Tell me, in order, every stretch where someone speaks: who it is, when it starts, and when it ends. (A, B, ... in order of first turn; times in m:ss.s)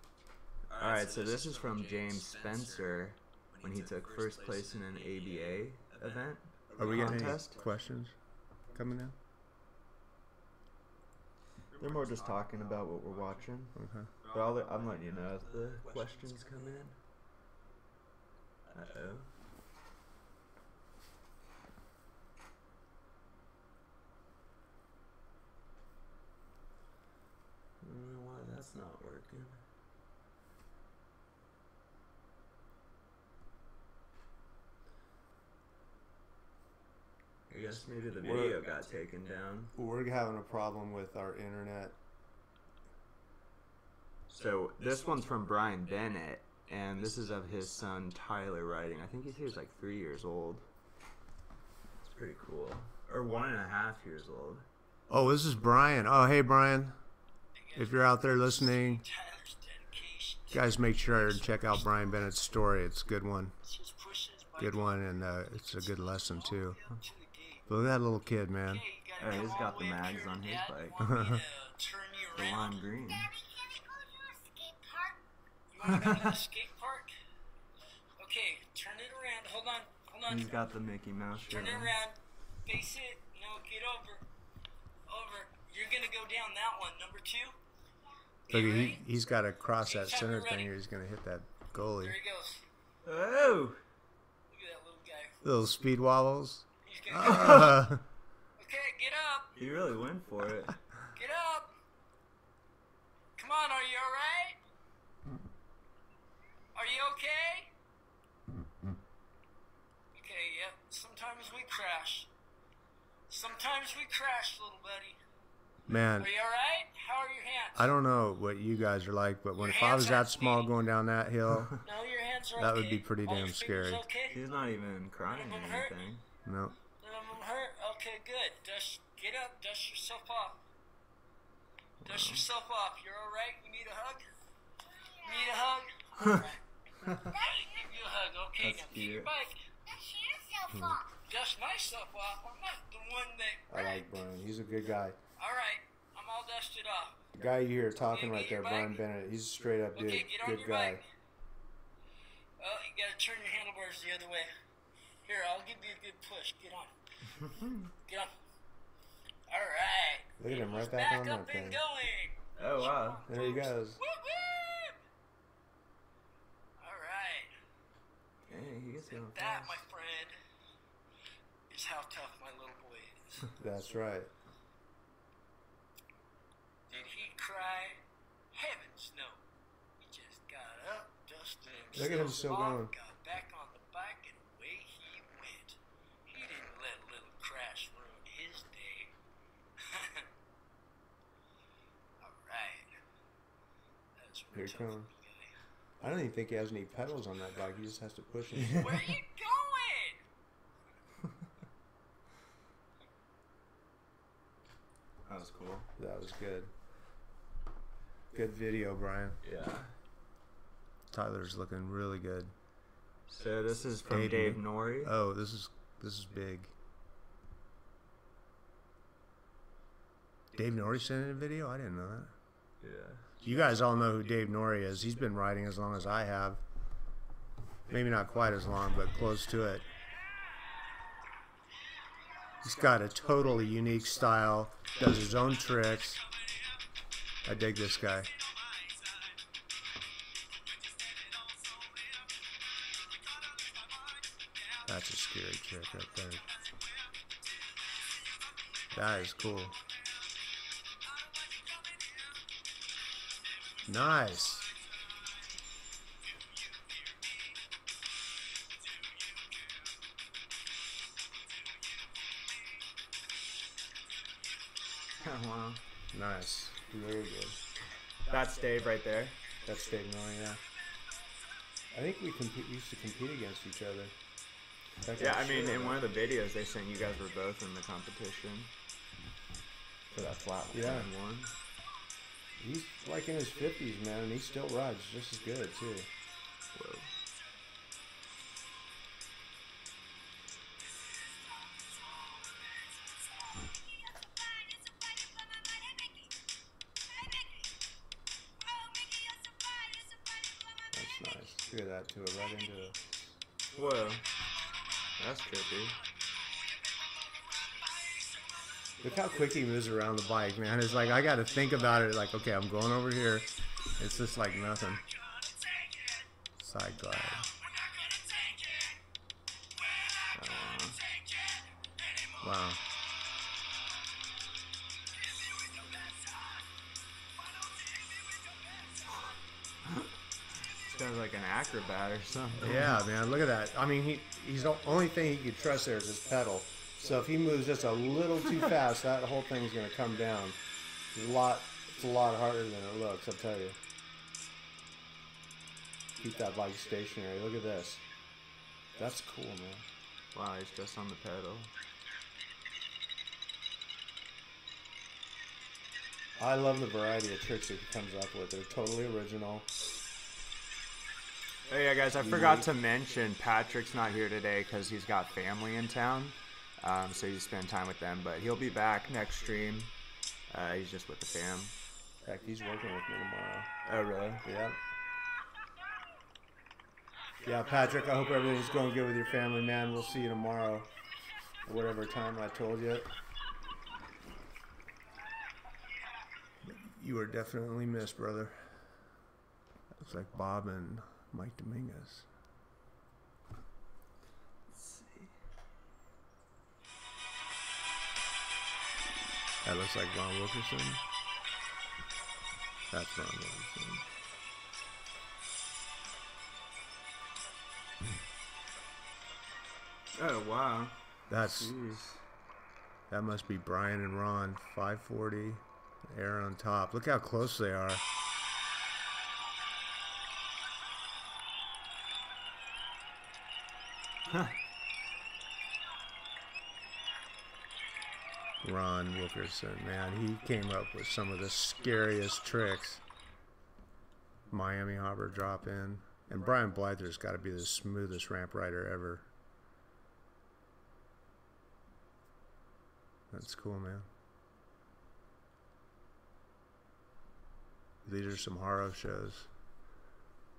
0:00.7-0:07.6 A
0:06.7-0:08.2 B
0:08.7-0:09.2 B
0:11.7-0:17.0 A
0:13.7-0:14.1 B
0:18.7-0:19.3 A
0:27.8-0:29.6 A
0:37.5-0:39.7 A
0:38.2-0:38.7 B
0:39.7-0:42.0 B
0:44.3-0:50.6 A
0:52.0-0:54.6 A
0:55.1-0:57.0 B
0:57.6-1:01.7 C
0:57.8-0:59.0 B
1:00.5-1:03.5 B
1:03.6-1:05.0 C
1:04.6-1:06.8 B
1:06.2-1:07.7 C
1:07.7-1:08.8 B
1:08.7-1:12.8 C
1:09.2-1:11.0 A
1:11.0-1:11.4 B
1:12.3-1:13.3 A
1:14.0-1:15.2 C
1:15.7-1:17.1 C
1:15.8-1:16.3 A
1:18.2-1:20.7 C
1:20.2-1:21.9 A
1:21.4-1:24.2 C
1:25.1-1:27.6 C
1:28.5-1:29.0 C
1:28.5-1:32.2 B
1:29.8-1:30.7 C
1:31.8-1:32.6 C
1:33.0-1:33.8 A
1:34.5-1:35.4 C
1:35.4-1:38.0 B
1:36.8-1:37.9 C
1:37.2-1:37.8 A
1:38.6-1:39.6 C
1:39.6-1:40.9 A
1:41.1-1:41.7 C
1:43.4-1:44.6 C
1:46.7-1:47.7 C
1:50.1-1:52.3 C
1:53.3-1:55.2 C
1:55.9-1:56.3 B
1:56.1-1:57.9 C
1:57.7-2:01.7 B
1:59.6-2:00.7 C
2:01.8-2:04.5 C
2:02.5-2:04.0 B
2:04.3-2:06.2 A
2:05.3-2:06.0 C
2:06.4-2:06.8 B
2:07.0-2:10.6 C
2:12.0-2:14.2 C
2:12.1-2:12.4 A
2:15.2-2:16.6 C
2:17.0-2:17.3 A
2:17.3-2:19.6 C
2:18.6-2:19.3 A
2:20.7-2:21.0 B
2:21.1-2:24.0 C
2:23.7-2:25.2 B
2:25.4-2:27.2 C
2:27.3-2:31.0 B
2:27.9-2:29.0 C
2:29.9-2:31.0 C
2:32.6-2:34.5 C
2:35.2-2:36.9 C
2:38.0-2:38.3 C
2:39.5-2:45.0 C
2:40.4-2:41.8 B
2:42.6-2:43.2 A
2:43.2-2:44.0 B
2:46.8-2:47.5 C
2:48.5-2:49.8 A
2:49.0-2:50.3 C
2:51.7-2:53.5 C
2:53.6-2:54.3 B
2:56.9-2:58.0 C
2:58.5-2:59.4 C
3:00.0-3:09.1 C
3:01.9-3:02.9 B
3:09.9-3:10.2 C
3:12.2-3:12.9 C
3:14.2-3:15.5 C
3:14.5-3:15.1 B
3:16.0-3:19.1 B
3:18.6-3:19.0 A
3:18.7-3:20.2 C
3:25.2-3:25.9 A
3:26.0-3:26.7 B
3:28.3-3:29.4 B
3:29.4-3:29.9 A
3:31.1-3:32.5 B
3:33.3-3:35.1 A
3:34.1-3:36.7 B
3:40.5-3:42.3 B
3:42.8-3:43.3 A
3:43.4-3:46.6 B
3:47.9-3:49.8 B
3:52.6-3:56.2 B
3:57.4-3:58.3 B
3:58.7-3:59.2 C
4:00.7-4:02.3 C
4:03.4-4:04.8 C
4:04.8-4:06.5 B
4:08.9-4:09.8 B
4:11.3-4:12.3 C
4:13.8-4:14.7 B
4:25.2-4:25.8 A
4:26.1-4:27.6 B
4:28.3-4:29.4 A
4:29.6-4:30.6 B
4:31.9-4:34.2 B
4:35.0-4:36.1 B
4:35.2-4:38.7 A
4:40.1-4:41.5 A
4:40.7-4:41.1 B
4:42.6-4:46.1 B
4:46.7-4:47.1 A
5:00.9-5:03.3 B
5:03.7-5:04.3 A
5:05.2-5:06.0 A
5:07.6-5:08.4 C
5:09.0-5:15.0 B
5:15.2-5:16.2 C
5:16.6-5:17.5 B
5:17.6-5:19.0 C
5:20.0-5:22.3 C
5:20.3-5:21.0 A
5:22.4-5:22.8 B
5:25.2-5:26.6 C
5:27.4-5:29.3 C
5:29.8-5:30.1 A
5:30.8-5:33.0 A
5:32.6-5:40.6 B
5:41.1-5:43.8 B
5:46.2-5:48.0 B
5:48.9-5:49.8 B
5:50.3-5:51.7 A
5:56.4-5:59.9 B
6:01.7-6:09.9 A
6:02.1-6:02.7 B
6:10.5-6:11.7 A
6:12.2-6:13.7 B
6:13.8-6:14.4 A
6:14.4-6:14.8 B
6:17.4-6:20.9 B
6:21.6-6:23.1 B
6:26.6-6:28.8 B
6:29.9-6:32.3 B
6:34.7-6:35.3 A
6:39.6-6:41.0 B
6:42.9-6:44.0 B
6:50.1-6:52.2 A
6:51.3-6:51.7 B
6:53.1-6:58.0 B
7:04.3-7:04.6 A
7:08.6-7:13.0 B
7:14.5-7:19.3 B
7:23.3-7:24.1 B
7:28.0-7:29.5 B